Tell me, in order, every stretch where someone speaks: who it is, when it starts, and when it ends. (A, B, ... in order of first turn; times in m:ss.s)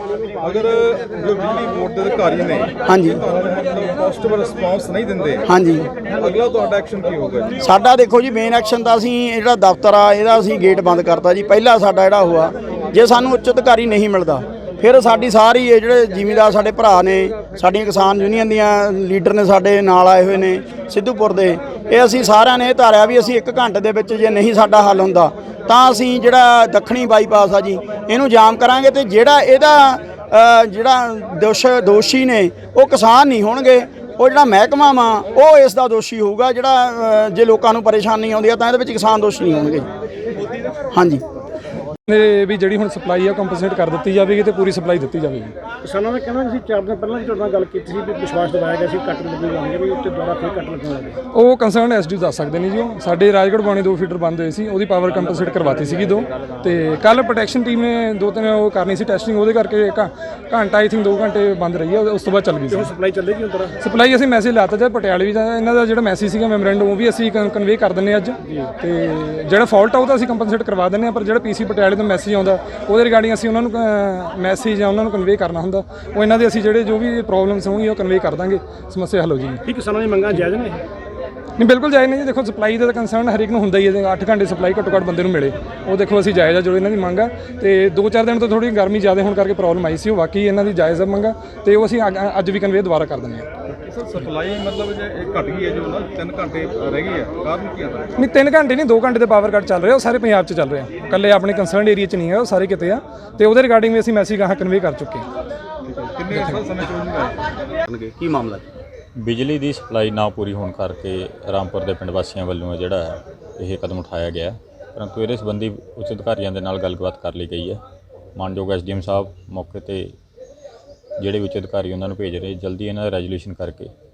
0:00.4-0:05.4 A
0:02.8-0:03.2 B
0:05.5-0:05.9 B
0:06.1-0:07.5 A
0:07.6-0:39.9 B
0:40.9-0:41.2 B
0:42.1-0:45.5 C
0:45.8-0:51.2 D
0:51.3-1:02.9 C
1:02.7-1:03.8 D
1:03.8-1:19.6 C
1:19.6-1:20.8 D
1:21.6-1:33.5 C
1:33.7-1:38.1 A
1:38.2-1:45.2 C
1:46.0-1:47.4 A
1:46.3-1:46.6 C
1:49.2-1:57.8 E
1:58.3-2:00.1 E
2:01.2-2:03.9 E